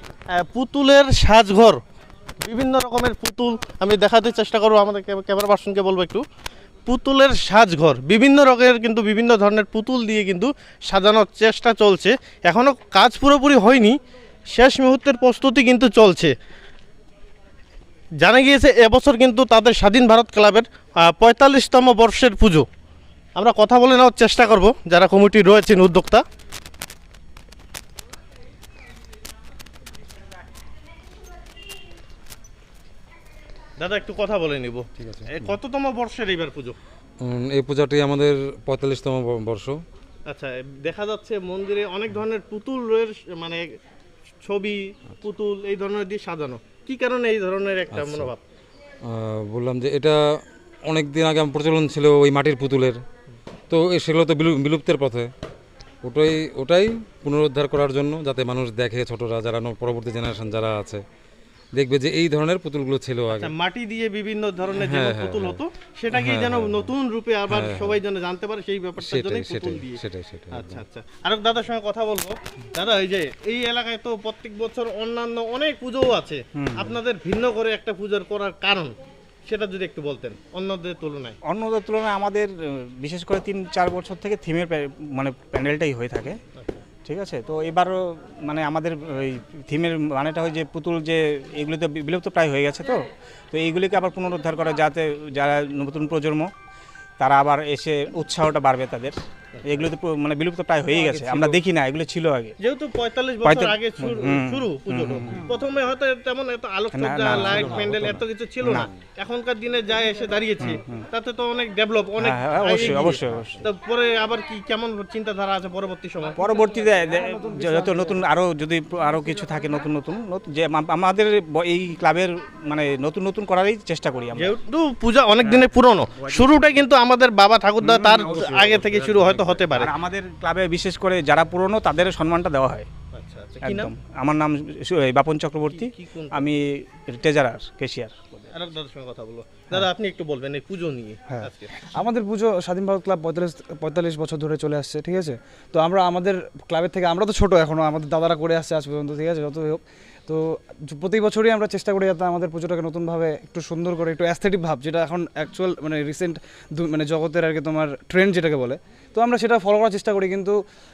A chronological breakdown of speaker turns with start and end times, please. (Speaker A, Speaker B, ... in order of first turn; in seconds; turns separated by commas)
Speaker A: 0.3-1.8, Speaker A: 2.4-6.2, Speaker A: 6.8-14.0, Speaker A: 14.5-16.3, Speaker A: 18.2-22.6, Speaker A: 23.4-26.2, Speaker A: 33.8-36.8, Speaker B: 35.0-35.5, Speaker B: 37.2-39.8, Speaker A: 40.3-43.6, Speaker A: 44.4-48.4, Speaker B: 47.9-48.3, Speaker B: 49.0-50.2, Speaker B: 50.9-53.0, Speaker B: 53.7-55.3, Speaker B: 56.0-61.0, Speaker B: 61.8-63.5, Speaker A: 63.3-70.0, Speaker B: 64.7-65.6, Speaker B: 66.1-66.9, Speaker B: 67.5-68.0, Speaker B: 69.0-70.8, Speaker A: 70.5-78.9, Speaker C: 76.6-77.0, Speaker A: 79.5-81.4, Speaker C: 81.4-86.4, Speaker A: 86.5-86.8, Speaker C: 87.0-96.5, Speaker C: 97.2-102.5, Speaker A: 99.5-99.9, Speaker A: 102.6-116.4, Speaker C: 103.4-105.4, Speaker C: 106.9-108.9, Speaker C: 110.6-111.0, Speaker C: 112.2-113.6, Speaker C: 116.4-124.5, Speaker D: 117.2-118.2, Speaker A: 124.3-129.9, Speaker C: 125.4-125.7, Speaker C: 126.2-126.8, Speaker C: 127.8-132.9, Speaker A: 133.1-133.9, Speaker C: 133.6-138.5, Speaker A: 135.7-136.5, Speaker A: 138.5-141.7, Speaker D: 141.3-160.6